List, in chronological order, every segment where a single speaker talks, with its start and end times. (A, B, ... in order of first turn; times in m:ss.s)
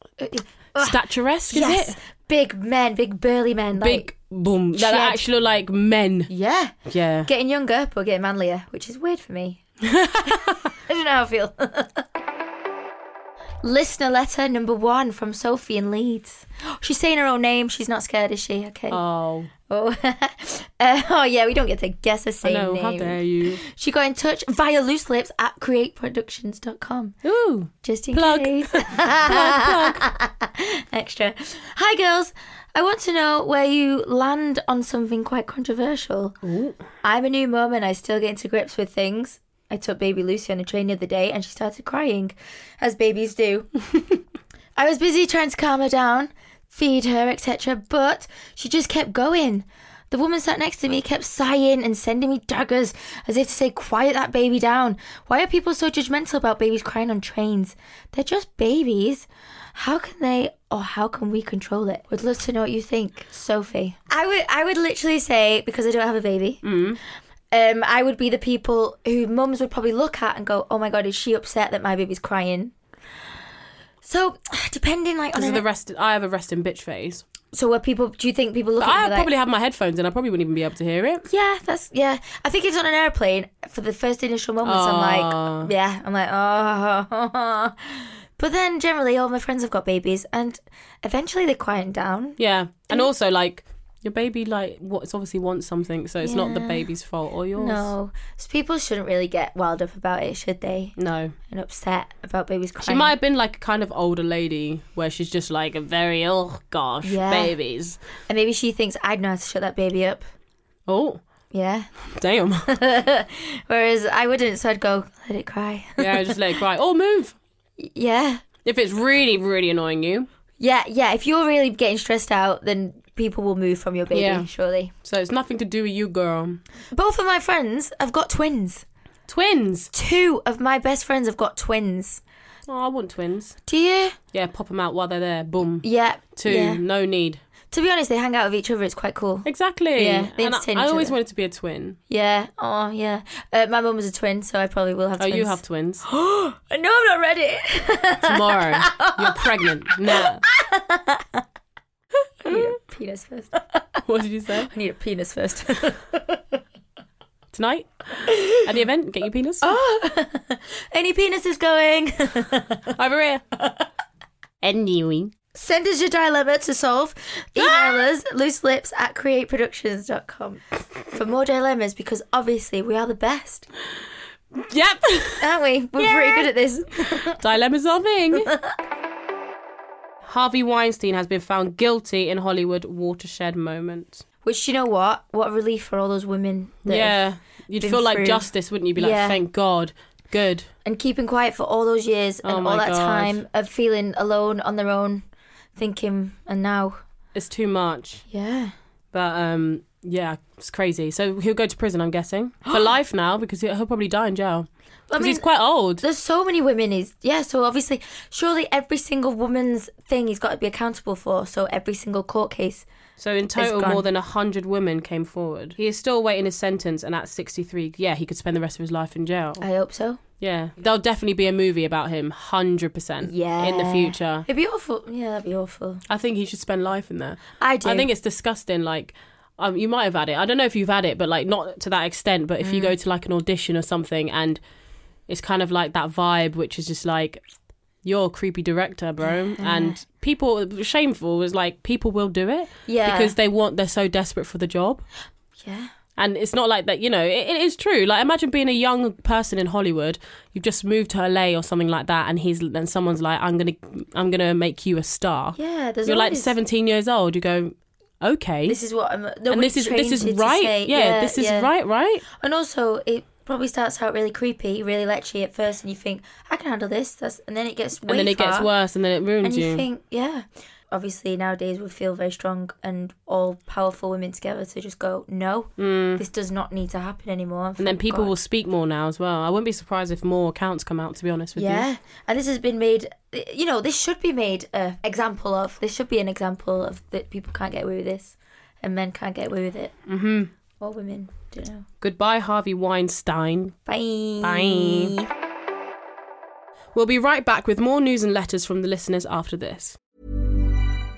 0:00.2-0:01.0 A
0:00.8-0:02.0 B
0:01.5-0:04.1 A
0:03.8-0:06.3 B
0:04.8-0:05.2 A
0:06.3-0:06.7 A
0:06.9-0:07.3 B
0:07.3-0:09.6 A
0:09.9-0:10.3 B
0:10.2-0:12.0 A
0:13.6-0:19.0 A
0:18.9-0:19.5 B
0:19.7-0:27.2 A
0:22.4-0:23.6 B
0:27.2-0:30.0 B
0:27.8-0:36.4 A
0:36.4-0:36.8 B
0:37.0-0:43.7 A
0:44.8-1:06.6 A
1:06.6-1:07.0 B
1:07.5-1:12.7 A
1:14.0-1:15.6 A
1:15.3-1:17.2 B
1:17.5-1:19.3 A
1:18.8-1:21.2 B
1:21.3-1:32.4 A
1:24.6-1:25.7 B
1:32.4-1:37.9 B
1:36.2-1:36.9 A
1:37.6-1:41.0 A
1:41.0-1:41.4 B
1:41.5-1:43.2 A
1:42.8-1:48.0 B
1:47.0-1:47.6 A
1:48.3-1:50.3 A
1:50.9-1:51.2 B
1:51.5-1:51.9 A
1:52.2-1:52.7 B
1:52.7-1:56.4 A
1:56.0-1:57.4 B
1:57.8-1:58.4 A
1:58.6-2:00.3 B
2:00.6-2:04.9 A
2:04.1-2:04.5 B
2:05.0-2:06.6 B
2:06.9-2:08.8 A
2:09.3-2:09.9 B
2:09.9-2:12.2 A
2:12.7-2:13.6 B
2:13.7-2:14.2 A
2:14.3-2:15.8 B
2:15.8-2:16.8 A
2:16.4-2:17.4 B
2:17.7-2:21.2 A
2:19.4-2:22.0 B
2:22.1-2:31.4 A
2:25.2-2:26.1 B
2:28.3-2:30.4 B
2:32.4-2:33.8 A
2:34.1-2:34.7 B
2:34.7-2:36.6 A
2:37.5-2:39.7 B
2:38.3-2:38.6 A
2:39.6-2:42.8 A
2:42.9-2:43.5 B
2:44.6-2:45.3 B
2:45.5-2:53.7 A
2:47.6-2:48.1 B
2:54.6-2:55.4 B
2:55.4-2:57.4 A
2:56.0-2:56.5 B
2:57.4-2:58.5 B
3:00.3-3:04.2 B
3:04.4-3:07.2 A
3:06.9-3:10.7 B
3:07.8-3:08.4 A
3:09.0-3:09.4 A
3:10.8-3:15.2 A
3:12.4-3:13.4 B
3:15.8-3:17.0 A
3:17.4-3:18.2 B
3:18.3-3:18.7 A
3:19.1-3:26.0 B
3:25.1-3:32.9 A
3:33.2-3:39.6 B
3:33.6-3:34.1 A
3:39.6-3:40.2 A
3:40.4-3:44.5 B
3:43.2-3:46.0 A
3:46.1-3:54.6 B
3:47.6-3:48.1 A
3:52.6-3:52.9 A
3:55.3-3:57.4 B
3:58.0-4:05.0 B
3:59.3-4:00.0 A
4:02.9-4:03.4 A
4:05.6-4:05.9 A
4:06.2-4:18.8 B
4:15.6-4:16.5 A
4:18.7-4:21.7 A
4:19.5-4:22.2 B
4:22.4-4:28.7 A
4:28.1-4:29.8 B
4:29.4-4:38.3 A
4:35.8-4:36.2 B
4:37.8-4:41.9 B
4:41.6-4:49.9 A
4:50.1-4:50.5 B
4:50.8-4:51.8 A
4:52.0-4:53.8 B
4:53.9-4:55.2 A
4:54.4-4:55.2 B
4:56.9-5:00.0 B